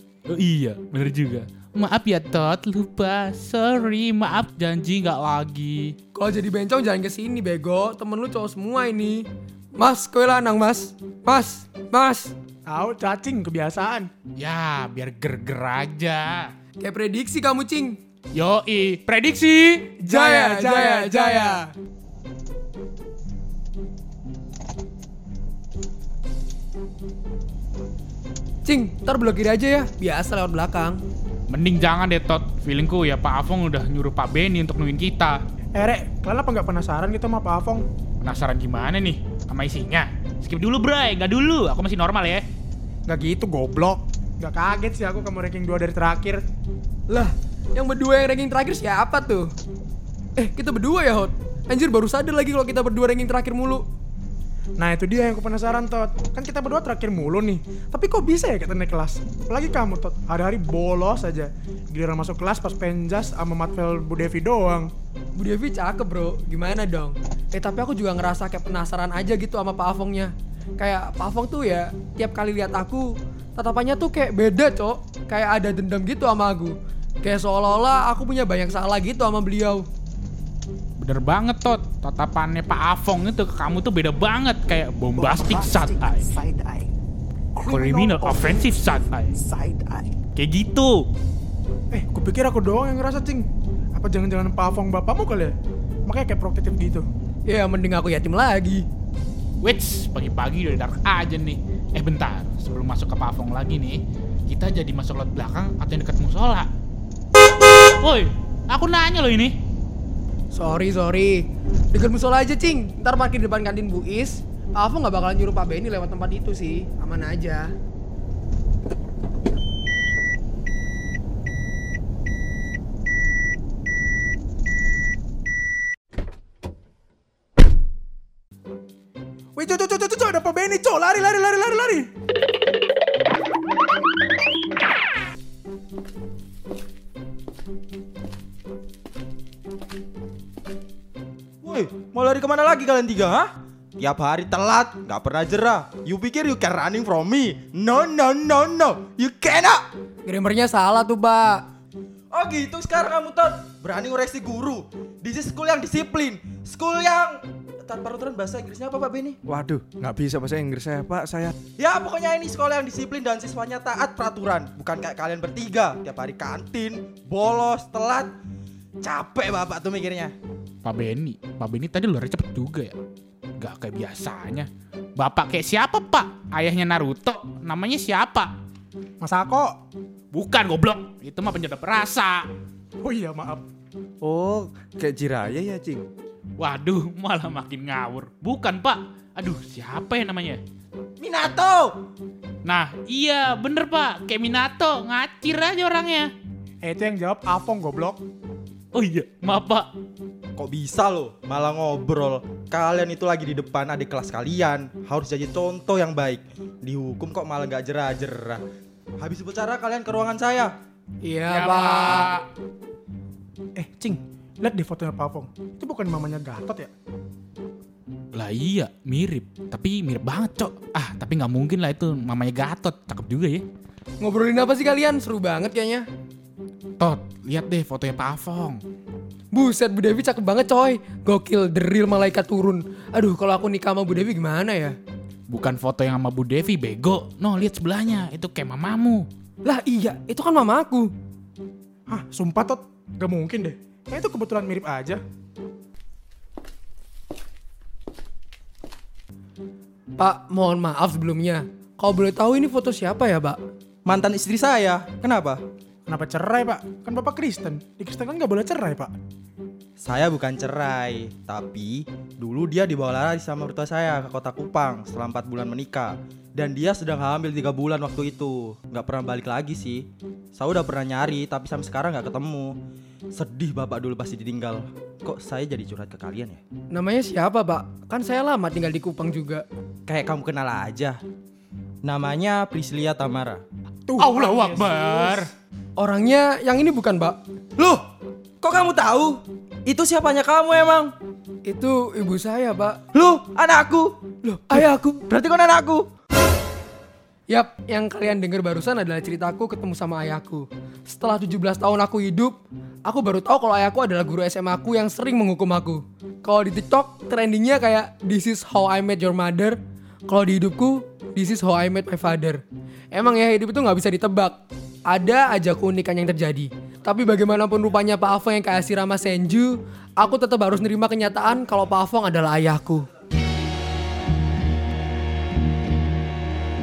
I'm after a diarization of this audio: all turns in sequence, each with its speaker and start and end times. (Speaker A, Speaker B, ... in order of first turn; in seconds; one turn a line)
Speaker A: 0.3-5.9
Speaker B: 6.1-12.3
Speaker C: 12.7-14.1
Speaker A: 14.4-16.5
Speaker B: 16.8-18.0
Speaker A: 18.4-19.9
Speaker C: 20.0-21.6
Speaker B: 20.1-21.7
Speaker B: 28.6-31.0
Speaker A: 31.5-35.4
Speaker C: 35.7-37.8
Speaker A: 38.2-42.4
Speaker C: 43.1-46.4
Speaker B: 47.1-49.5
Speaker B: 50.4-53.8
Speaker C: 54.8-64.9
Speaker B: 65.4-79.8
Speaker A: 81.0-86.4
Speaker D: 85.2-86.8
Speaker D: 87.6-88.7
Speaker A: 87.6-89.4
Speaker D: 89.4-90.0
Speaker A: 90.3-91.0
Speaker C: 91.9-95.5
Speaker C: 96.1-97.0
Speaker B: 97.5-98.8
Speaker A: 99.6-106.7
Speaker A: 108.0-109.5
Speaker B: 110.5-117.7
Speaker C: 129.6-132.1
Speaker E: 141.6-149.8
Speaker B: 150.2-151.6
Speaker E: 152.3-159.4
Speaker F: 159.4-161.5
Speaker E: 161.8-168.3
Speaker E: 169.0-170.3
Speaker A: 170.8-172.9
Speaker A: 173.6-178.5
Speaker C: 179.2-179.8
Speaker A: 180.3-182.5
Speaker C: 183.0-183.6
Speaker F: 184.2-186.0
Speaker A: 186.6-190.6
Speaker E: 191.2-192.0
Speaker A: 192.6-196.3
Speaker C: 196.8-198.2
Speaker A: 198.9-199.9
Speaker E: 200.6-208.6
Speaker E: 209.2-210.7
Speaker B: 211.2-212.3
Speaker A: 211.5-212.4
Speaker C: 213.8-216.9
Speaker A: 218.3-223.6
Speaker B: 224.2-226.0
Speaker A: 227.0-228.8
Speaker B: 229.5-235.0
Speaker A: 235.5-239.2
Speaker B: 239.6-241.1
Speaker C: 242.1-245.2
Speaker B: 250.2-253.6
Speaker E: 254.1-255.6
Speaker C: 256.1-259.1
Speaker E: 260.0-272.7
Speaker E: 273.4-276.6
Speaker B: 276.9-279.6
Speaker E: 280.1-281.2
Speaker E: 282.0-283.6
Speaker C: 284.1-285.4
Speaker A: 284.2-285.5
Speaker B: 286.0-287.4
Speaker E: 287.8-288.0
Speaker E: 288.6-291.1
Speaker B: 291.6-293.0
Speaker E: 293.1-294.2
Speaker B: 294.4-295.2
Speaker E: 294.7-296.1
Speaker B: 297.5-312.6
Speaker B: 313.1-323.0